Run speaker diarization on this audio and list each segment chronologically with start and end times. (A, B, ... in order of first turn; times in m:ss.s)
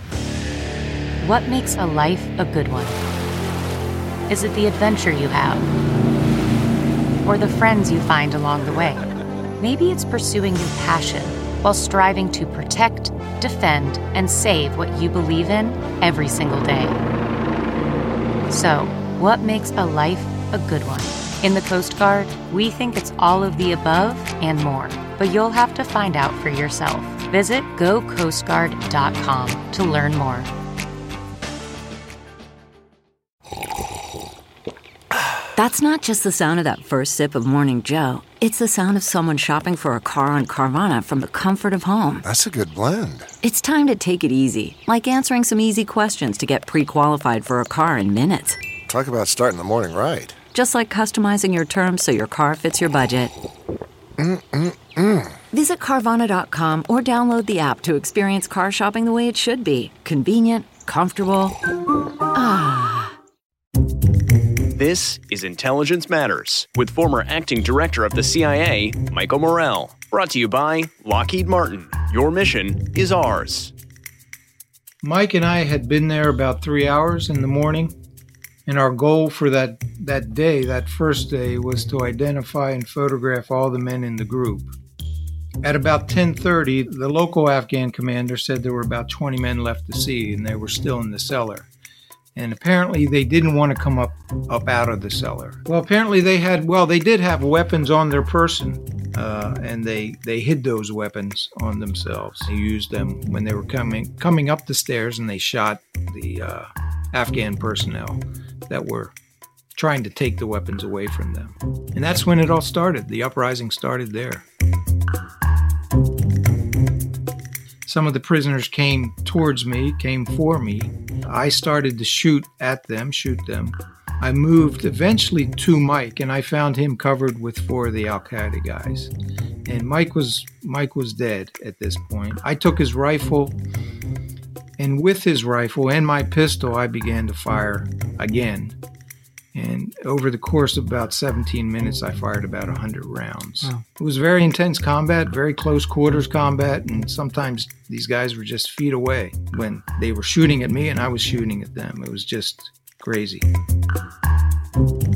0:01.2-0:03.0 A
0:04.3-0:05.7 A
0:07.2-0:09.0 A
0:09.6-0:17.0 A
0:18.5-0:30.5 A
0:35.6-0:42.2 B
0:42.2-0:43.3 C
0:43.4-0:48.6 B
0:48.8-0:50.4 C
0:50.5-0:53.3 B
0:54.2-0:55.4 C
0:55.5-1:01.6 B
1:02.3-1:03.1 B
1:04.7-1:13.7 D
1:15.0-1:18.0 E
1:18.6-1:24.7 E
1:25.6-1:31.7 E
1:32.3-1:49.1 E
1:49.7-1:54.5 E
1:57.8-2:09.1 E
2:09.6-2:13.6 E
2:14.8-2:18.8 E
2:19.5-2:33.5 E